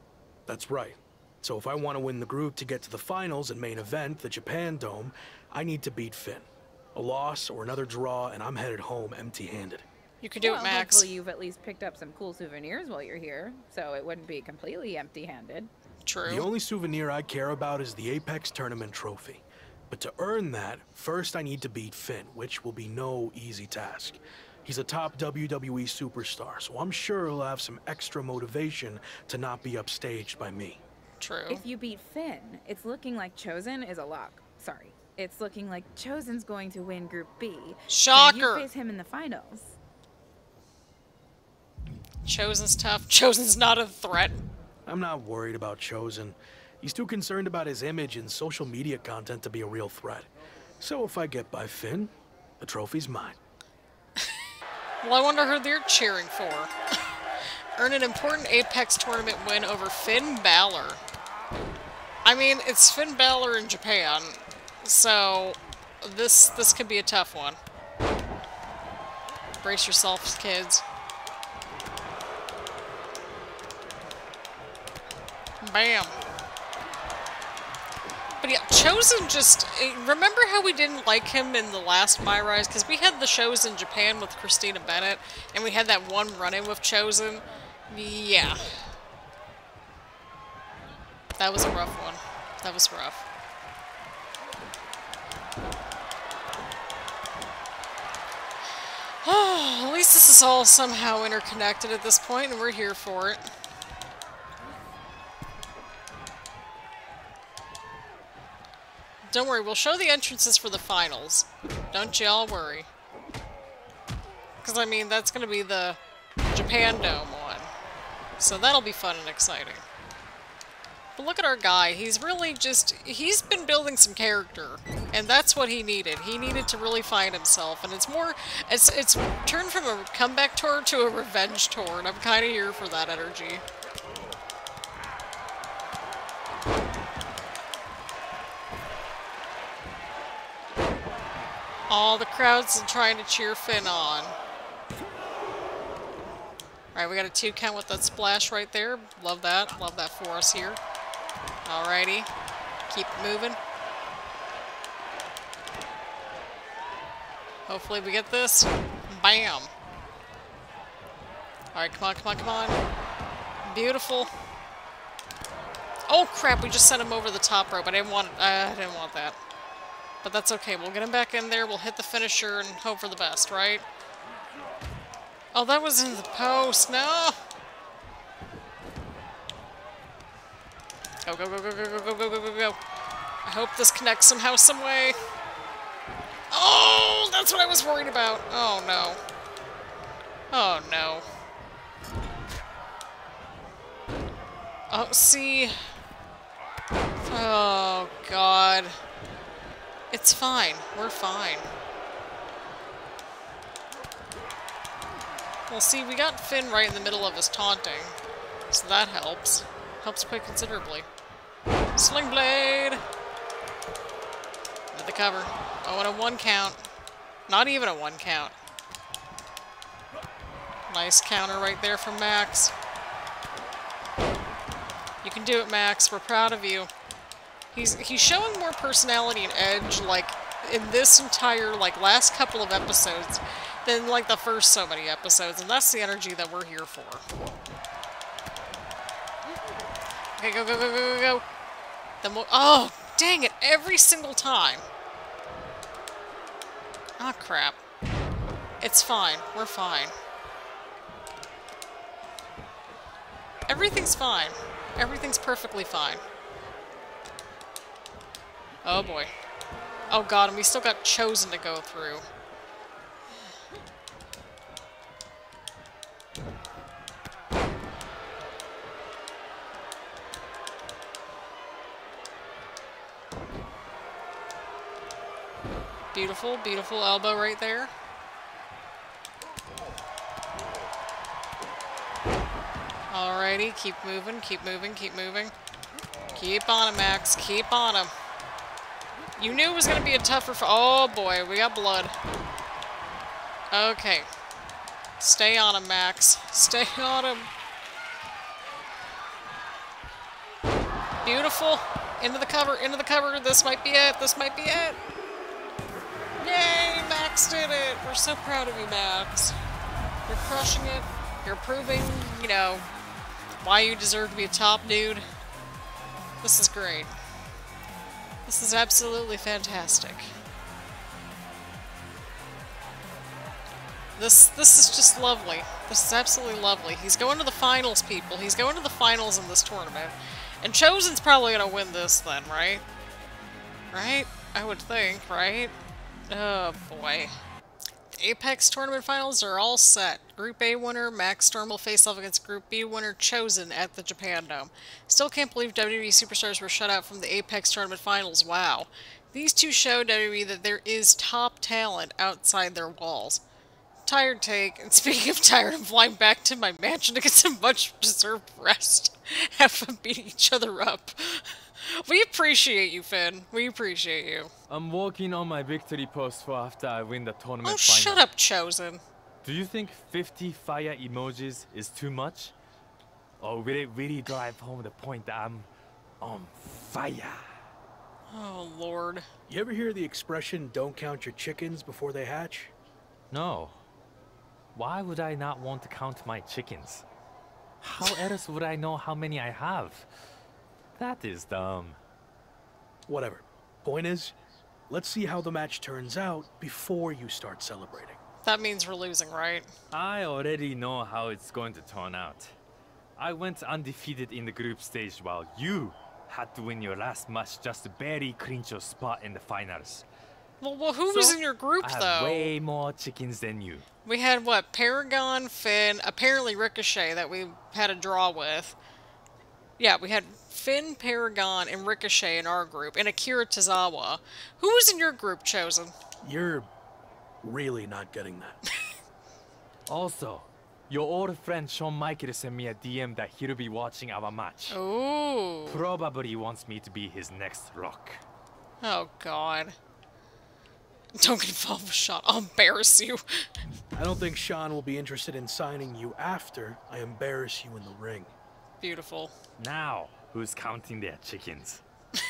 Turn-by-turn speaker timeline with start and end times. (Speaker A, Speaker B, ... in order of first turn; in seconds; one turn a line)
Speaker A: 0.5-9.8
Speaker B: 10.2-11.1
Speaker C: 10.4-15.7
Speaker B: 16.1-16.5
Speaker A: 16.2-30.8
Speaker B: 31.2-31.6
Speaker C: 31.5-39.8
Speaker B: 37.9-38.7
Speaker B: 42.2-44.4
Speaker A: 44.9-53.4
Speaker B: 55.0-56.7
Speaker B: 57.8-61.0
Speaker B: 62.2-67.6
Speaker B: 69.6-70.8
Speaker B: 75.6-76.1
Speaker B: 78.4-88.7
Speaker B: 91.4-93.2
Speaker B: 99.2-103.4
Speaker B: 109.3-112.9
Speaker B: 114.6-116.0
Speaker B: 116.5-117.7
Speaker B: 118.4-119.8
Speaker B: 121.2-133.6
Speaker B: 141.9-144.3
Speaker B: 146.9-150.8
Speaker B: 151.7-152.3
Speaker B: 152.9-153.6
Speaker B: 157.7-159.7
Speaker B: 161.7-162.8
Speaker B: 163.6-164.3
Speaker B: 166.1-169.4
Speaker B: 170.2-173.8
Speaker B: 175.5-177.4
Speaker B: 181.2-182.8
Speaker B: 183.4-185.2
Speaker B: 186.5-189.2
Speaker B: 190.5-191.2
Speaker B: 194.9-195.8
Speaker B: 197.2-198.9
Speaker B: 200.1-201.7
Speaker B: 205.7-208.2
Speaker B: 208.7-211.1
Speaker B: 211.9-213.0
Speaker B: 214.9-216.8
Speaker B: 217.5-218.6
Speaker B: 220.9-222.7
Speaker B: 225.2-226.9
Speaker B: 227.7-237.2
Speaker B: 240.4-241.4
Speaker B: 242.2-244.8
Speaker B: 247.2-247.8
Speaker B: 248.8-250.1
Speaker B: 253.7-256.2
Speaker B: 258.9-259.3
Speaker B: 260.1-262.2
Speaker B: 276.1-277.9
Speaker B: 283.1-285.5
Speaker B: 286.3-288.1
Speaker B: 289.4-292.1
Speaker B: 293.7-294.3
Speaker B: 295.2-297.5
Speaker B: 301.2-305.0
Speaker B: 306.4-309.6
Speaker B: 310.3-312.9
Speaker B: 313.6-315.2
Speaker B: 316.4-317.1
Speaker B: 318.4-320.3
Speaker B: 324.2-332.8
Speaker B: 333.9-335.7
Speaker B: 336.3-337.3
Speaker B: 338.1-353.4
Speaker B: 354.1-364.5
Speaker D: 364.7-368.2
Speaker B: 367.6-369.0
Speaker D: 369.4-372.5
Speaker D: 373.4-375.7
Speaker D: 376.2-377.4
Speaker B: 378.3-379.2
Speaker A: 379.5-382.7
Speaker D: 383.3-383.8
Speaker D: 384.7-387.1
Speaker D: 387.8-390.1
Speaker D: 391.0-392.0
Speaker A: 393.1-394.4
Speaker A: 394.9-398.2
Speaker B: 398.4-399.7
Speaker D: 399.9-402.5
Speaker D: 403.2-410.1
Speaker B: 410.6-412.5
Speaker D: 411.1-413.9
Speaker B: 414.1-418.8
Speaker B: 419.8-425.9
Speaker A: 426.2-426.7
Speaker A: 427.4-428.6
Speaker D: 429.9-434.8
Speaker B: 434.7-435.8
Speaker D: 435.7-438.2
Speaker B: 438.8-439.7
Speaker B: 441.1-443.2
Speaker A: 443.9-448.3
Speaker B: 448.8-449.3
Speaker D: 449.6-451.8